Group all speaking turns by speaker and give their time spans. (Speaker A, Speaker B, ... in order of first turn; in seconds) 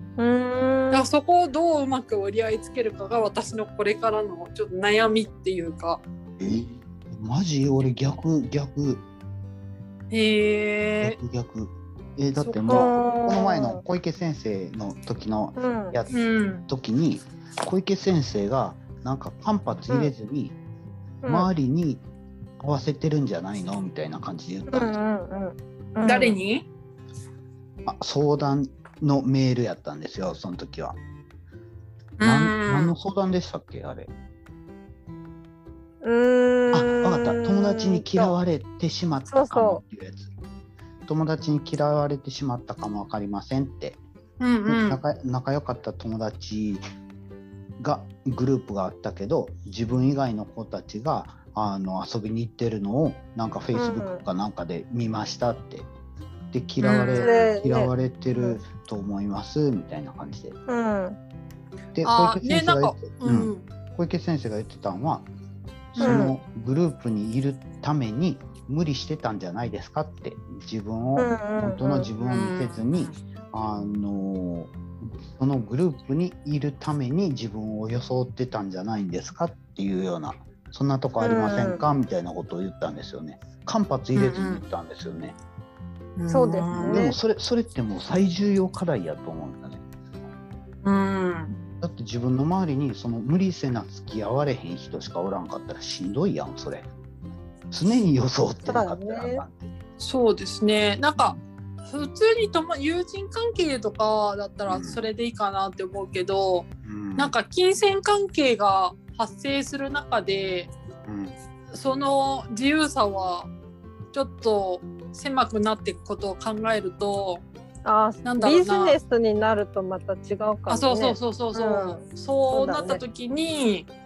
Speaker A: 0.2-1.1, 12.7-13.8, 15.6-16.0, 21.2-21.5, 24.7-26.4, 36.0-38.3, 39.3-39.8, 53.7-54.2, 57.2-58.6, 60.7-61.2, 66.0-66.3, 71.2-72.1, 81.2-81.8, 86.3-87.2, 98.7-99.4, 117.8-123.0
Speaker B: 0.9-6.0, 10.1-11.2, 12.4-12.9, 16.1-16.6, 26.0-26.6, 32.2-32.9, 44.4-45.0, 56.8-57.5, 62.0-63.6, 65.9-66.3, 72.2-73.2, 84.1-84.6, 86.2-87.0, 90.8-91.6, 100.0-110.7, 111.7-113.5, 114.1-117.4, 118.2-119.0, 120.7-123.9
Speaker C: 6.4-9.0, 11.0-16.1, 16.7-20.6, 21.2-22.0, 22.6-25.0, 27.9-31.0, 32.2-34.1, 36.7-40.3, 41.0-44.0, 44.7-46.8, 47.8-55.9, 56.5-60.6, 61.9-65.3, 65.9-85.3, 86.7-89.8, 91.8-96.9, 97.7-99.8, 104.7-105.0, 106.8-107.3, 111.0-111.3